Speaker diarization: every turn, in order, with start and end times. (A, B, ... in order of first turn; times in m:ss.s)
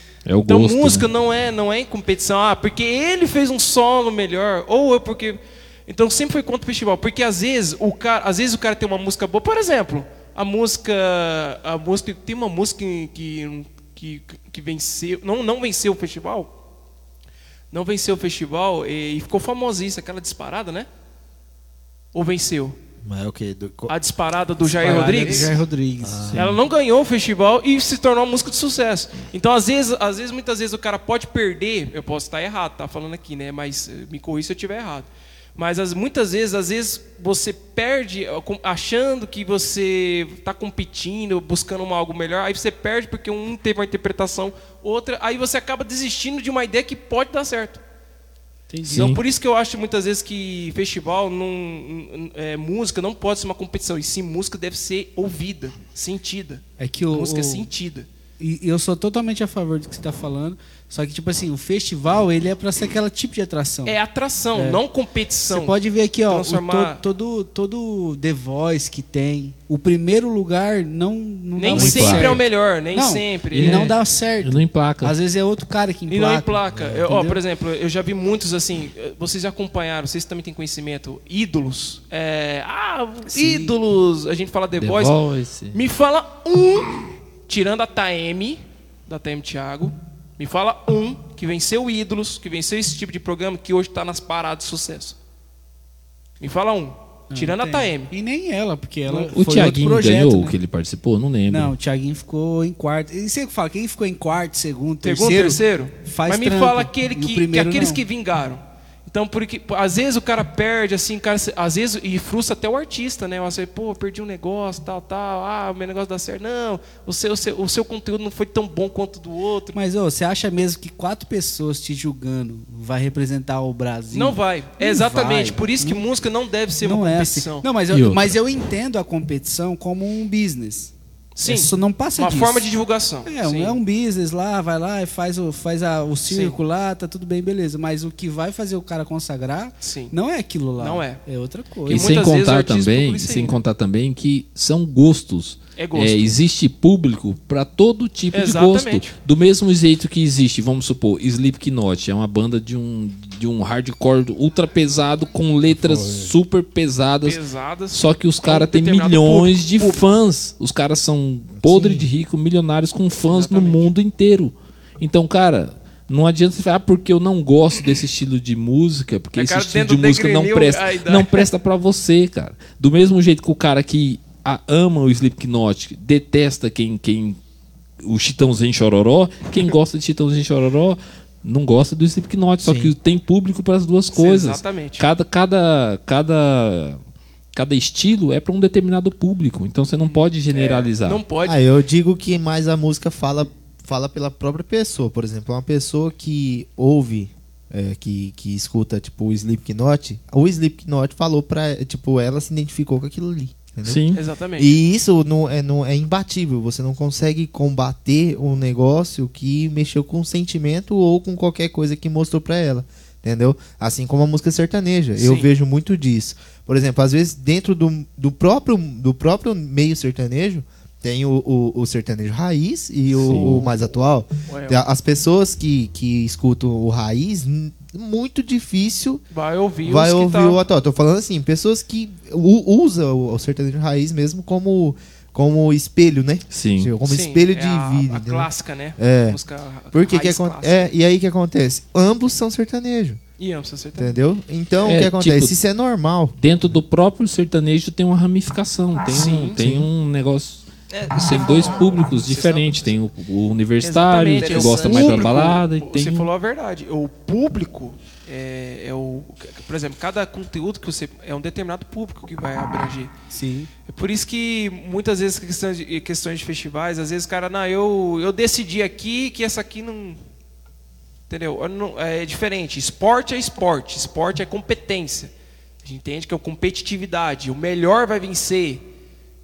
0:00.2-0:01.1 A
0:00.4-0:16.5 B
0:17.7-0:20.9 B
0:22.1-0:22.8 B
0:23.0-0:23.9 C
0:23.9-0:25.6 B
0:24.8-0:25.5 D
0:24.8-0:26.4 E
0:26.0-0:26.5 C
0:26.3-0:47.8 B
0:48.7-0:49.1 E
0:48.9-0:58.1 B
0:48.9-0:49.2 A
0:56.8-0:57.7 E
0:58.4-1:04.0 E
1:03.8-1:05.8 B
1:04.5-1:04.8 E
1:05.5-1:17.4 E
1:06.3-1:07.0 B
1:11.6-1:13.9 B
1:11.7-1:12.4 A
1:13.5-1:15.2 A
1:16.1-1:25.2 B
1:23.3-1:23.8 E
1:24.8-1:25.8 A
1:25.7-1:35.2 B
1:36.4-1:38.1 B
1:37.3-1:40.6 E
1:39.1-1:41.7 A
1:41.5-1:48.0 E
1:45.0-1:59.8 B
1:59.7-2:06.1 E
2:04.1-2:07.7 B
2:06.8-2:10.9 E
2:07.9-2:08.3 A
2:11.3-2:13.8 B
2:11.4-2:12.7 E
2:13.2-2:22.1 E
2:16.3-2:16.6 B
2:19.8-2:20.1 B
2:20.8-2:21.2 B
2:21.9-2:37.4 A
2:21.9-2:23.6 B
2:25.8-2:26.3 B
2:28.3-2:29.2 B
2:35.7-2:36.3 C
2:37.2-2:40.0 B
2:37.9-2:57.4 A
2:41.5-2:42.1 C
2:43.3-2:43.9 B
2:49.4-2:51.5 B
2:58.0-3:07.0 A
3:02.6-3:02.9 C
3:04.1-3:05.1 B
3:07.5-3:11.2 A
3:10.0-3:11.6 B
3:11.4-3:24.0 C
3:23.8-3:24.2 A
3:24.1-3:24.8 B
3:24.6-3:49.2 C
3:35.2-3:35.5 B
3:43.1-3:43.7 A
3:44.5-3:44.8 B
3:49.3-3:50.6 B
3:49.8-3:59.4 C
3:56.5-3:56.9 A
3:57.0-4:00.8 B
3:59.9-4:03.2 C
4:03.4-4:04.1 B
4:04.0-4:06.4 C
4:04.8-4:05.5 A
4:06.4-4:10.6 A
4:09.1-4:09.6 B
4:09.6-4:09.9 C
4:10.9-4:12.9 D
4:11.2-4:16.3 A
4:13.8-4:23.1 B
4:14.3-4:15.6 D
4:23.3-4:23.7 E
4:23.9-4:30.2 B
4:31.3-4:35.3 B
4:35.8-4:38.8 B